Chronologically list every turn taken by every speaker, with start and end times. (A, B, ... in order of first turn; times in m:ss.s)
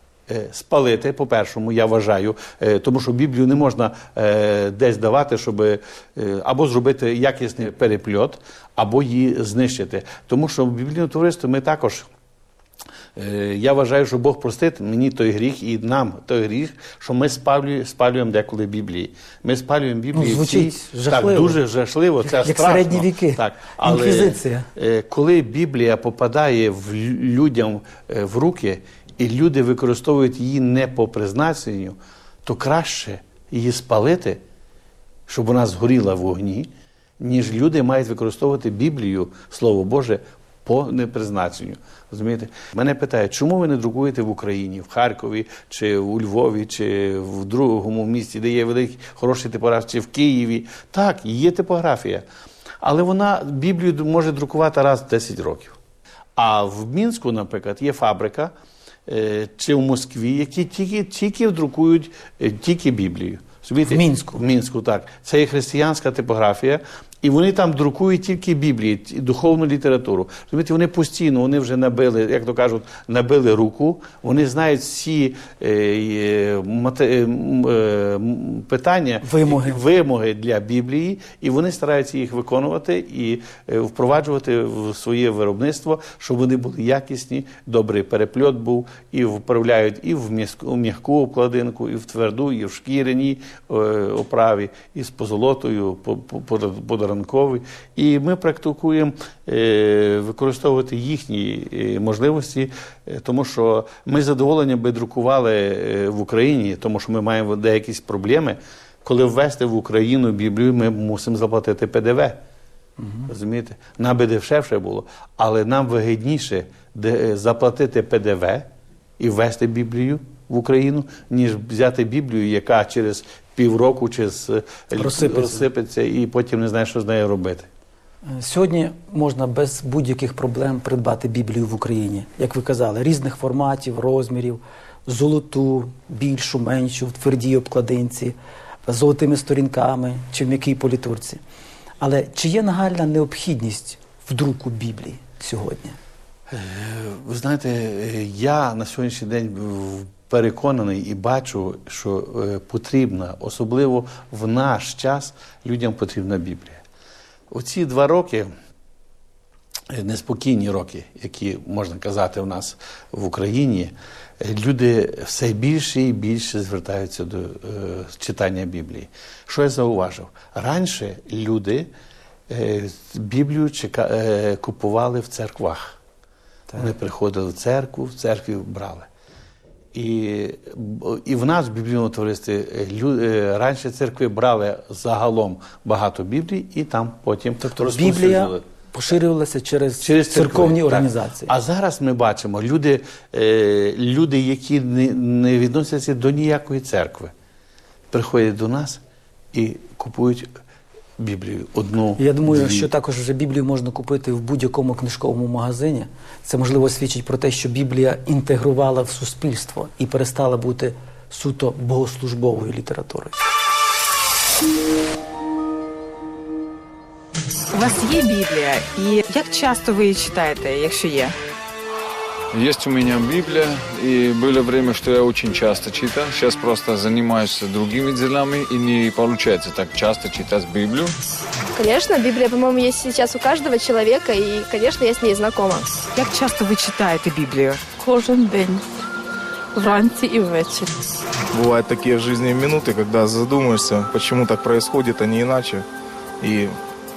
0:00.3-0:12.1 A
0:13.2-0:34.4 A
0:20.1-0:21.6 B
0:22.2-0:24.7 B
0:35.3-0:52.2 A
0:52.8-0:55.8 A
0:56.4-0:58.5 A
0:59.0-1:52.4 A
1:03.8-1:04.4 B
1:19.2-1:19.8 B
1:53.0-1:53.3 B
1:53.3-1:58.7 A
1:59.2-2:07.7 A
2:04.9-2:05.7 B
2:08.3-2:21.4 B
2:22.0-2:26.0 B
2:26.5-2:36.8 A
2:37.5-2:38.5 A
2:39.9-2:51.9 A
2:52.5-2:56.0 A
2:56.7-2:59.1 A
2:59.9-3:08.6 A
3:07.7-3:11.5 B
3:10.0-3:17.3 A
3:18.1-3:19.0 A
3:19.5-3:20.5 A
3:21.2-3:22.9 A
3:22.2-3:33.3 B
3:37.7-3:41.3 C
3:42.5-3:51.1 D
3:51.8-3:55.9 E
3:56.1-3:57.8 C
3:58.0-3:58.8 F
3:59.7-4:01.0 F
4:01.5-4:05.8 G
4:06.4-4:06.8 G